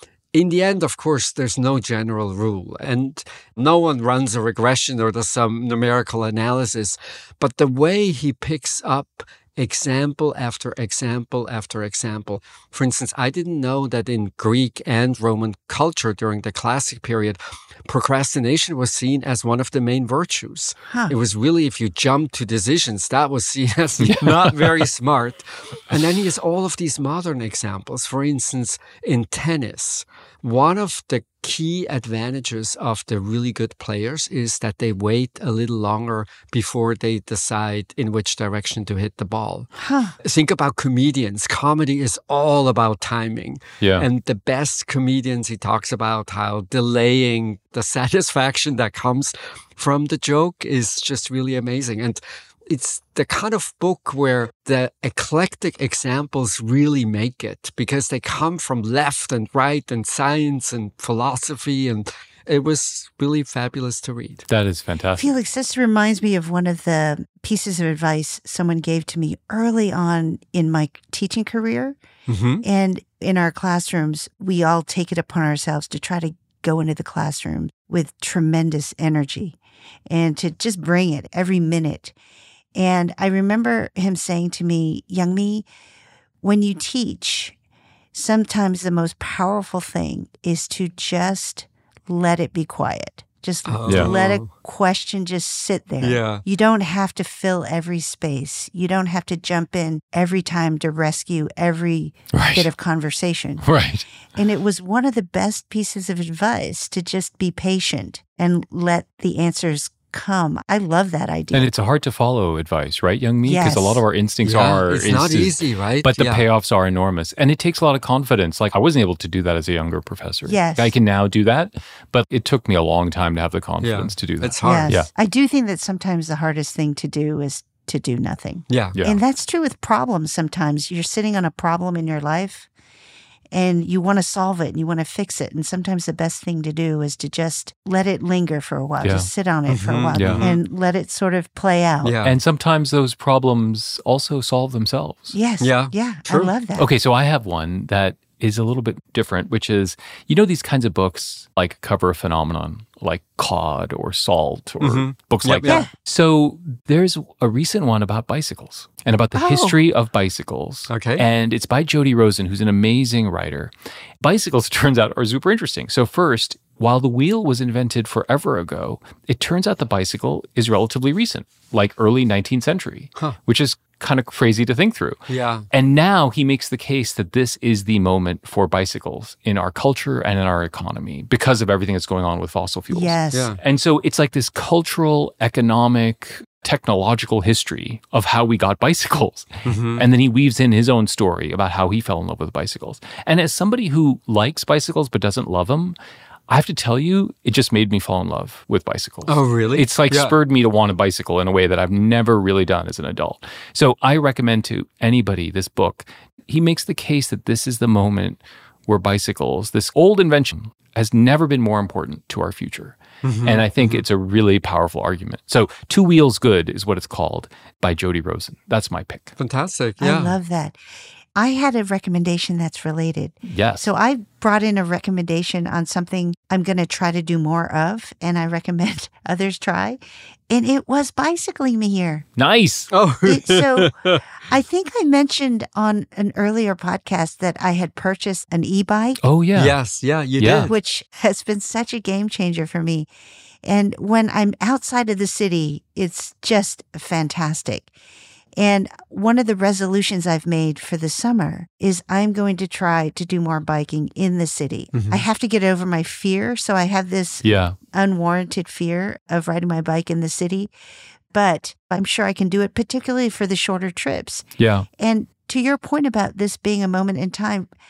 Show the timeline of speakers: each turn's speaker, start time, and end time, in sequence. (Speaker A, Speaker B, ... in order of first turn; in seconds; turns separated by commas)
Speaker A: 0.3-39.7, Speaker B: 24.0-24.9, Speaker C: 39.8-40.2, Speaker A: 40.2-64.5, Speaker B: 43.8-44.1, Speaker B: 64.5-65.3, Speaker C: 65.2-72.0, Speaker A: 72.3-72.6, Speaker C: 72.6-79.6, Speaker C: 80.1-82.1, Speaker C: 82.8-85.7, Speaker C: 86.4-87.5, Speaker C: 88.1-103.7, Speaker A: 93.7-94.5, Speaker A: 96.0-96.4, Speaker B: 102.3-102.7, Speaker B: 103.6-104.1, Speaker C: 104.3-111.7, Speaker B: 111.5-125.1, Speaker C: 113.4-114.0, Speaker A: 114.4-116.5, Speaker C: 120.5-120.9, Speaker A: 123.8-125.0, Speaker C: 124.6-132.7, Speaker A: 128.7-129.0, Speaker B: 128.9-129.2, Speaker C: 133.5-142.1, Speaker B: 139.0-139.3, Speaker A: 139.7-140.6, Speaker B: 140.1-140.5, Speaker A: 142.0-142.4, Speaker B: 142.2-145.3, Speaker C: 145.3-146.9, Speaker A: 145.6-146.5, Speaker B: 146.8-175.2, Speaker A: 154.8-155.9, Speaker C: 159.4-159.8, Speaker A: 160.9-161.2, Speaker A: 175.3-175.7, Speaker B: 175.7-196.0, Speaker C: 182.9-183.5, Speaker A: 183.3-183.6, Speaker A: 189.7-190.1, Speaker B: 196.5-219.3, Speaker A: 199.3-200.3, Speaker A: 213.2-214.0, Speaker A: 219.4-220.4, Speaker C: 220.0-220.8, Speaker C: 221.4-232.3, Speaker B: 223.5-223.9, Speaker B: 232.4-232.9, Speaker A: 232.9-234.2, Speaker C: 233.3-233.9, Speaker C: 234.5-239.2, Speaker B: 239.2-239.8, Speaker A: 239.6-240.8, Speaker B: 240.4-240.7, Speaker C: 240.7-243.1, Speaker C: 243.6-247.9, Speaker C: 248.6-260.7, Speaker A: 254.9-255.2, Speaker B: 257.4-257.8, Speaker C: 261.3-264.4, Speaker B: 264.6-264.9, Speaker C: 265.0-267.7